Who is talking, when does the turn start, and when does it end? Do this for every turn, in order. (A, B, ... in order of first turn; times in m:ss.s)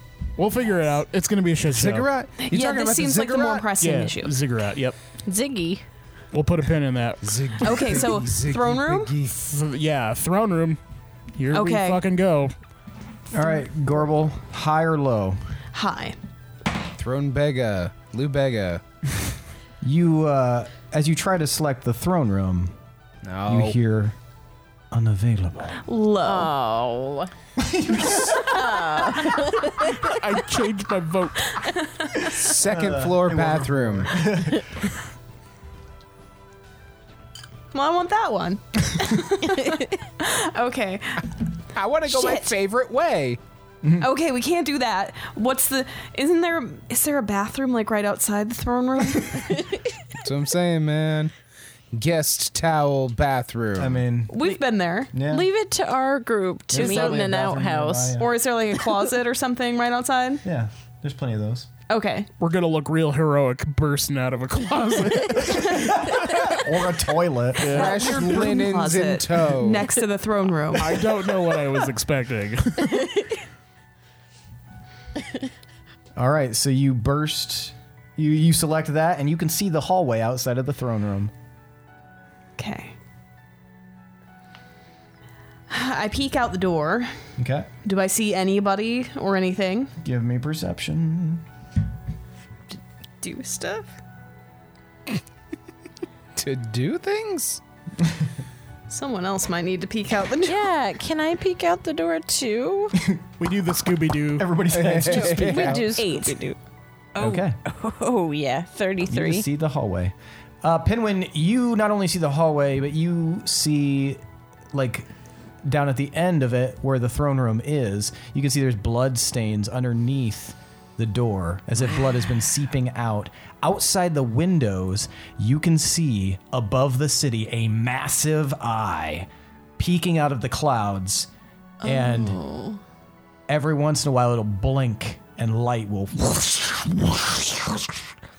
0:00.4-0:02.1 A
0:01.7-0:03.6 B
0:02.4-0:04.3 C
0:03.8-0:05.0 A
0:05.2-0:05.8 D
0:06.3-0:07.9 A
0:07.2-0:09.4 B
0:07.6-0:09.1 C
0:09.4-0:10.8 A
0:11.4-0:12.5 A
0:11.5-0:12.0 C
0:13.3-0:15.4 E
0:15.7-0:16.2 C
0:17.0-0:18.8 B
0:19.8-0:22.8 E
0:23.2-0:23.8 B
0:23.5-0:24.2 E
0:24.9-0:25.8 E
0:25.8-0:26.5 C
0:26.2-0:27.3 D
0:27.6-0:28.6 E
0:28.2-0:29.4 C
0:28.5-0:30.0 D
0:29.8-0:31.7 A
0:31.6-0:32.4 C
0:32.3-0:34.2 B
0:32.7-0:34.7 E
0:37.7-0:41.2 C
0:41.7-0:43.4 B
0:42.1-0:42.5 C
0:44.0-0:49.7 C
0:49.5-0:49.8 D
0:50.2-0:51.3 B
0:51.9-0:54.0 B
0:53.8-0:54.4 E
0:54.3-0:55.2 C
0:55.1-0:55.5 E
0:55.2-0:58.2 D
0:56.7-0:57.3 C
0:56.7-0:58.3 E
0:58.2-1:00.4 C
1:00.4-1:01.7 E
1:01.9-1:02.3 C
1:02.4-1:06.1 A
1:06.0-1:07.9 E
1:07.6-1:08.0 A
1:07.6-1:11.1 C
1:07.6-1:09.9 B
1:10.8-1:13.3 A
1:16.2-1:21.3 E
1:22.6-1:22.9 C
1:25.7-1:27.1 C
1:27.4-1:27.7 E
1:27.8-1:29.9 C
1:30.0-1:31.4 E
1:33.2-1:33.9 C
1:36.4-1:37.6 B
1:38.9-1:40.6 C
1:40.4-1:43.0 D
1:43.4-1:44.5 A
1:44.4-1:46.0 E
1:44.7-1:45.9 B
1:45.3-1:46.6 D
1:46.0-1:46.5 C
1:47.2-1:47.6 E
1:47.2-1:49.4 D
1:49.1-1:54.2 E
1:54.7-1:55.1 E
1:55.6-2:11.3 E
2:11.8-2:12.4 E
2:11.8-2:12.8 D
2:13.5-2:18.0 E